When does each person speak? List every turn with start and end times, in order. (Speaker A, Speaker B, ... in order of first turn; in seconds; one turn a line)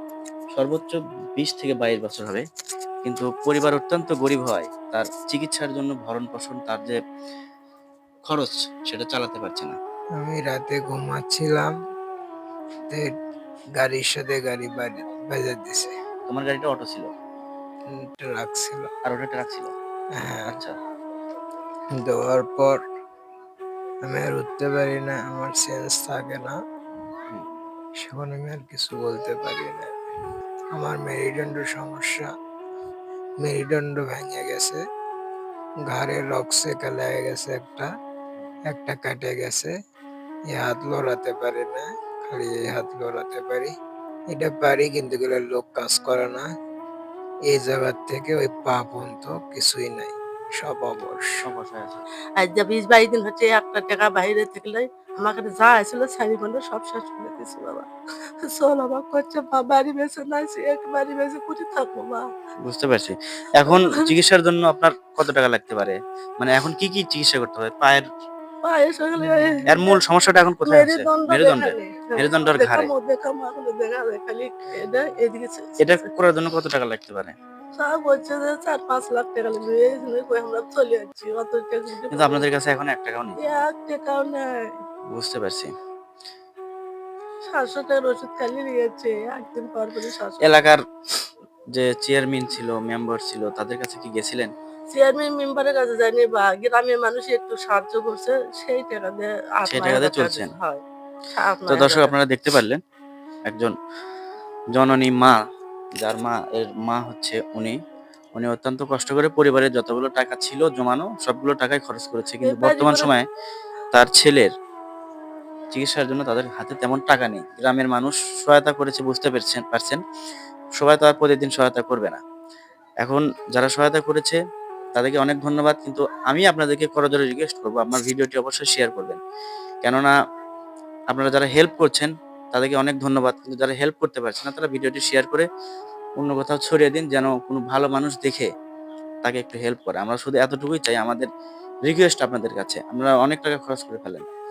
Speaker A: 0.5-2.4
Speaker A: 3.0-7.0
Speaker A: 8.3-9.8
Speaker B: 10.2-11.7
Speaker B: 13.8-15.9
Speaker A: 16.3-17.1
Speaker B: 17.9-18.9
Speaker A: 19.0-19.7
Speaker B: 20.2-20.6
Speaker B: 22.0-22.8
Speaker B: 24.1-26.5
Speaker B: 28.0-29.9
Speaker B: 30.7-32.3
Speaker B: 33.4-34.8
Speaker B: 35.9-37.9
Speaker B: 38.7-39.7
Speaker B: 40.5-43.7
Speaker B: 44.3-46.5
Speaker B: 47.5-51.4
Speaker A: 51.4-52.0
Speaker C: 52.4-57.9
Speaker C: 58.4-62.2
Speaker A: 62.6-68.0
Speaker C: 68.6-70.0
Speaker B: 69.2-69.6
Speaker A: 69.7-72.9
Speaker C: 70.7-76.1
Speaker A: 75.8-77.3
Speaker C: 77.8-82.4
Speaker A: 82.1-83.6
Speaker C: 83.4-84.7
Speaker A: 85.1-85.7
Speaker C: 87.5-90.5
Speaker A: 90.4-90.8
Speaker A: 91.7-94.5
Speaker C: 94.9-100.8
Speaker A: 99.7-100.5
Speaker C: 101.3-102.1
Speaker A: 101.7-102.8
Speaker A: 103.5-103.7
Speaker A: 104.7-105.4
Speaker A: 106.0-107.8
Speaker A: 108.3-113.2
Speaker C: 112.4-113.1
Speaker A: 113.9-114.5
Speaker A: 115.7-120.0
Speaker A: 120.8-122.2
Speaker A: 123.0-124.4
Speaker A: 124.9-129.2
Speaker A: 129.8-130.1
Speaker A: 131.1-135.4
Speaker A: 136.2-138.5
Speaker A: 139.2-141.3
Speaker A: 141.8-144.2